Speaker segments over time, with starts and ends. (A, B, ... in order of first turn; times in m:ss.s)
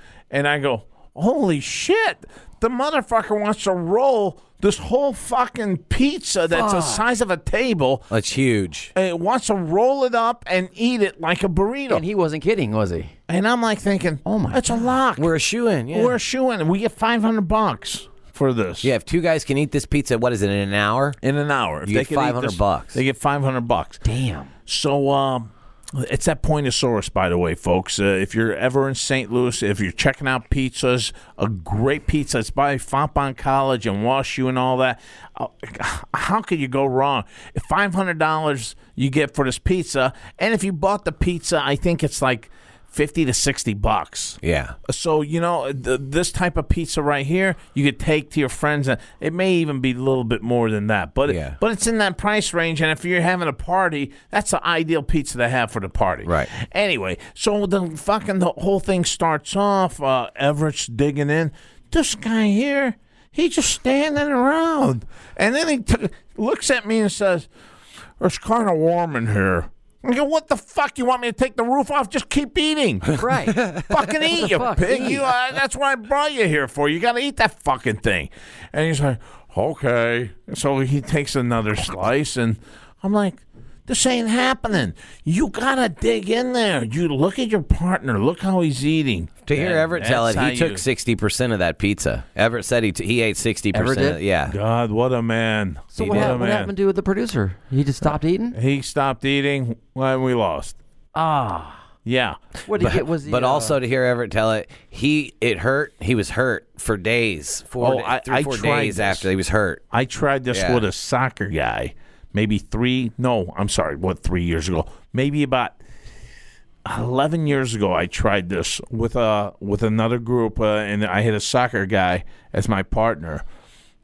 0:00.3-0:08.1 A
0:06.5-0:07.0 B
0:08.1-0:08.9 C
0:08.9-0:12.0 A
0:11.9-0:13.1 B
0:13.3-0:15.3 A
0:14.2-0:14.9 B
0:15.2-0:16.2 C
0:15.9-0:18.9 A
0:18.8-0:21.2 C
0:21.2-0:24.0 A
0:21.8-0:23.0 C
0:24.0-0:24.5 B
0:24.7-1:07.5 A
0:44.4-0:44.8 C
0:51.3-0:51.6 C
0:56.2-0:56.5 C
1:08.2-1:30.8 A
1:13.1-1:13.8 B
1:13.6-1:13.9 C
1:14.3-1:15.2 B
1:29.4-1:34.5 C
1:33.7-1:34.2 B
1:34.5-1:36.7 A
1:35.9-1:38.6 B
1:36.1-1:36.3 C
1:38.5-1:40.8 A
1:41.1-1:41.8 B
1:42.0-1:42.4 A
1:42.6-1:43.8 B
1:42.8-1:49.8 C
1:47.8-1:49.3 A
1:49.9-1:55.8 A
1:50.5-1:50.8 C
1:56.8-2:03.4 A